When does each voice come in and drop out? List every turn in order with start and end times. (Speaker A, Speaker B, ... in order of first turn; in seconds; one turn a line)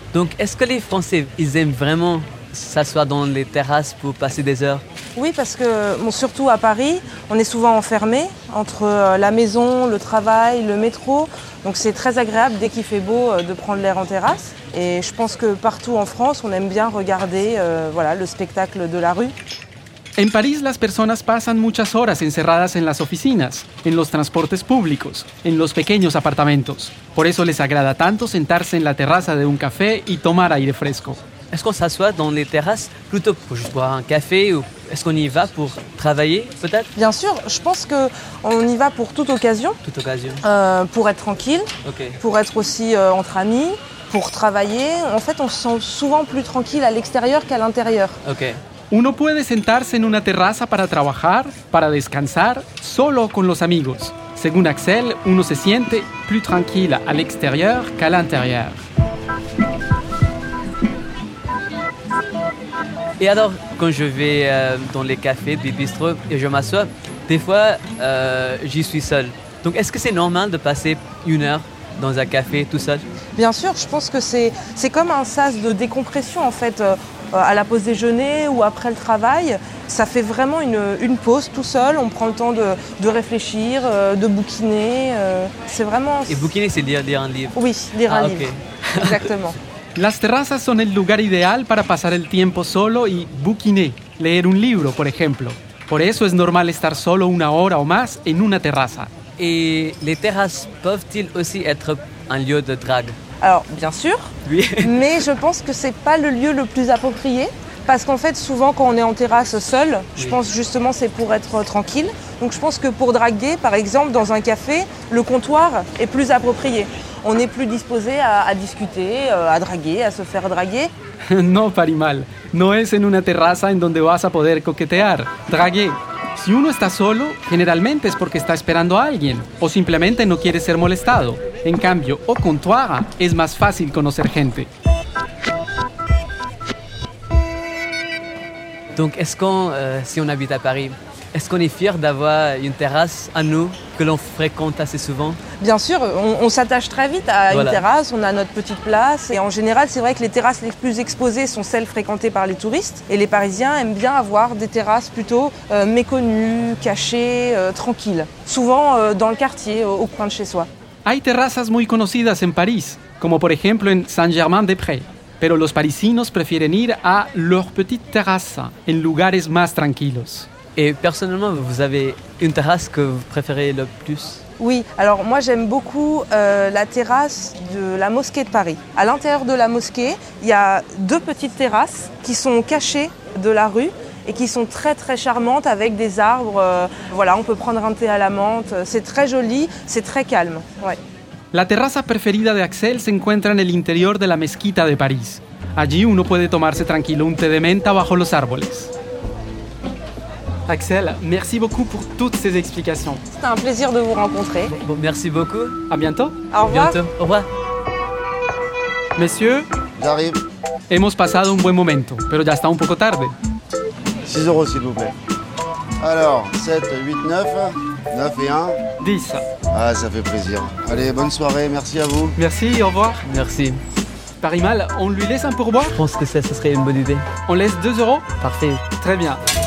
Speaker A: 0.1-4.8
Speaker B: 5.2-19.3
Speaker C: 20.2-31.2
Speaker A: 31.5-36.9
Speaker B: 37.0-39.8
Speaker A: 39.8-40.4
Speaker B: 40.4-41.7
Speaker A: 41.8-42.2
Speaker B: 42.2-48.2
Speaker A: 48.2-48.6
Speaker C: 48.9-58.8
Speaker A: 63.2-73.1
Speaker B: 73.4-86.5
Speaker A: 86.3-87.6
Speaker B: 87.5-89.6
Speaker A: 88.1-89.2
Speaker C: 90.0-99.1
Speaker A: 99.4-103.2
Speaker B: 103.4-120.9
Speaker A: 104.5-104.9
Speaker C: 121.3-134.7
Speaker A: 138.9-145.4
Speaker B: 145.6-160.7
Speaker A: 147.5-147.8
Speaker C: 161.1-170.5
Speaker A: 170.8-174.4
Speaker B: 174.6-191.0
Speaker C: 191.5-198.9
Speaker C: 200.7-203.2
Speaker B: 203.3-204.8
Speaker A: 204.7-205.8
Speaker C: 205.9-206.4
Speaker B: 206.5-207.0
Speaker A: 206.7-207.5
Speaker C: 209.2-209.7
Speaker D: 210.0-210.4
Speaker C: 210.9-213.3
Speaker D: 214.2-215.2
Speaker D: 216.0-218.8
Speaker C: 219.0-219.5
Speaker D: 219.7-222.4
Speaker C: 222.4-223.2
Speaker A: 223.2-223.8
Speaker C: 224.4-226.0
Speaker A: 225.9-227.3
Speaker C: 227.5-228.3
Speaker A: 228.4-228.8
Speaker C: 229.0-229.4